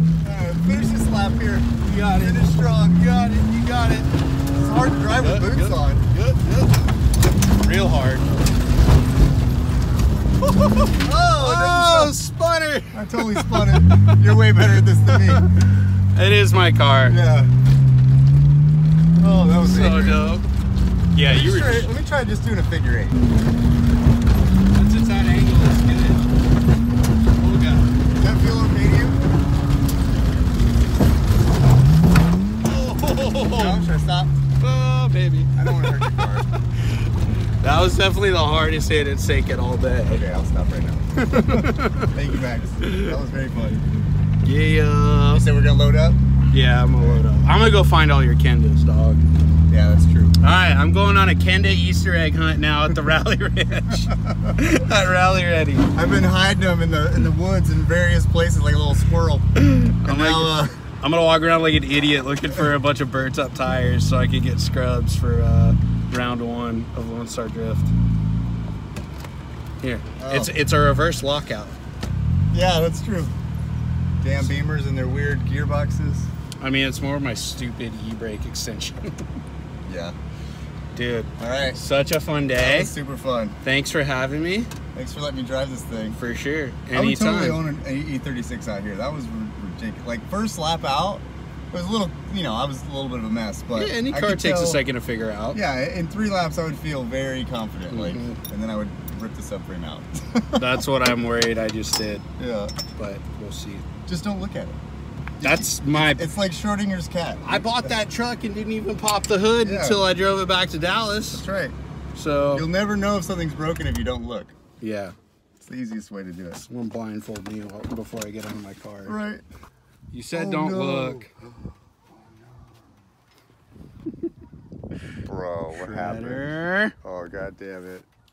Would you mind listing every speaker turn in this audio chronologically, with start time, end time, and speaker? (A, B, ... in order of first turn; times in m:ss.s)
0:00.2-0:06.1 A
0:01.8-0:02.5 B
0:05.2-0:06.8 B
0:07.4-0:08.3 B
0:10.5-0:15.5 B
0:11.0-0:12.1 A
0:12.9-0:15.5 A
0:16.1-0:17.2 B
0:17.1-0:17.5 A
0:19.2-0:20.3 A
0:19.6-0:20.5 B
0:21.1-0:21.9 B
0:21.2-0:23.2 A
0:24.7-0:26.3 B
0:27.4-0:28.0 B
0:28.2-0:29.2 A
0:32.7-0:33.8 B
0:33.6-0:34.4 A
0:34.6-0:36.0 B
0:35.5-0:36.5 A
0:37.6-0:40.2 B
0:40.1-0:43.8 A
0:41.2-0:42.1 B
0:42.8-0:43.2 B
0:44.4-0:45.5 B
0:45.3-0:46.2 A
0:46.5-0:49.3 B
0:47.0-0:47.2 A
0:49.7-0:50.4 A
0:50.4-0:55.9 B
0:54.1-0:54.6 A
0:56.0-0:59.5 A
0:59.6-1:07.9 B
1:00.0-1:00.8 A
1:09.8-1:11.8 B
1:10.2-1:10.5 A
1:12.5-1:13.4 A
1:14.2-1:16.3 A
1:16.6-1:19.1 B
1:19.8-1:20.2 A
1:20.9-1:23.0 B
1:21.4-1:21.8 A
1:22.6-1:23.6 A
1:23.6-1:24.7 B
1:24.9-1:26.2 A
1:26.2-1:27.6 B
1:26.9-1:34.8 A
1:33.7-1:35.6 B
1:35.5-1:40.8 A
1:37.9-1:38.4 B
1:40.6-1:42.2 B
1:42.4-1:42.8 A
1:43.0-1:43.9 B
1:44.1-1:44.8 A
1:45.4-1:48.0 A
1:45.4-1:46.3 B
1:47.4-1:51.4 B
1:49.6-1:50.0 A
1:51.3-1:51.8 A
1:52.2-1:52.7 B
1:52.5-1:54.6 A
1:54.8-1:55.2 B
1:55.6-1:56.6 A
1:56.7-1:59.2 B
1:59.0-1:59.4 A
2:00.1-2:01.3 B
2:00.3-2:01.5 A
2:02.1-2:02.9 A
2:05.2-2:08.1 A
2:05.7-2:07.0 B